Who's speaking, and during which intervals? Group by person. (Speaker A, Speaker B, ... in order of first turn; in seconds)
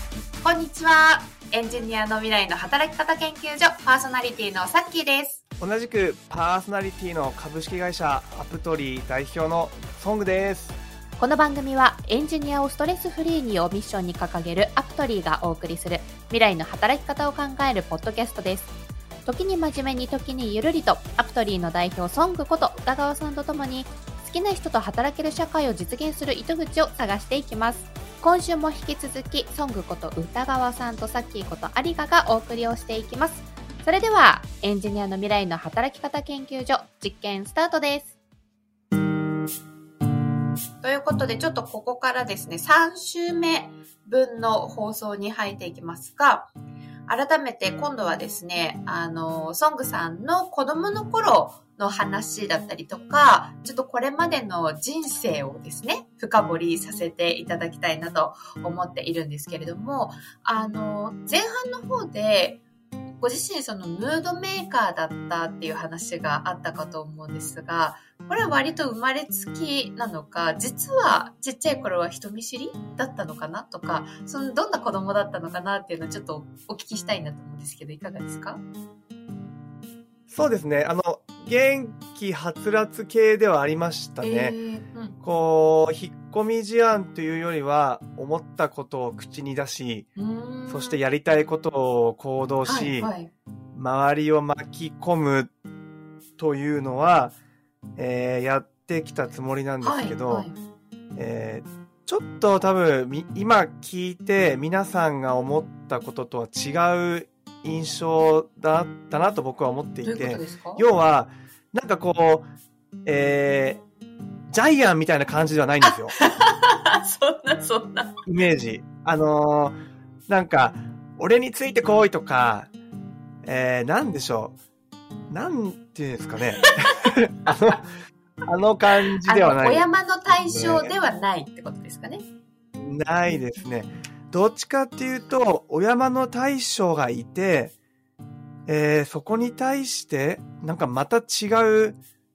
Speaker A: 0.4-5.4, 11.2-18.7, 19.2-38.1, 40.8-46.5, 47.1-62.6, 63.2-78.6, 84.2-85.2, 90.2-91.0, 92.6-93.3, 99.8-100.6, 110.0-110.8, 115.8-118.2, 126.6-126.9, 129.2-132.2, 133.3-134.0
Speaker B: 5.6-10.8, 80.3-84.6, 85.2-90.1, 90.7-93.1, 93.7-95.5, 96.4-97.3, 98.0-100.5, 101.2-112.5, 113.1-113.8, 114.5-116.2, 118.2-119.8, 120.3-122.7, 123.4-124.6, 125.3-127.8, 128.5-130.9, 132.8-137.7, 138.7-142.0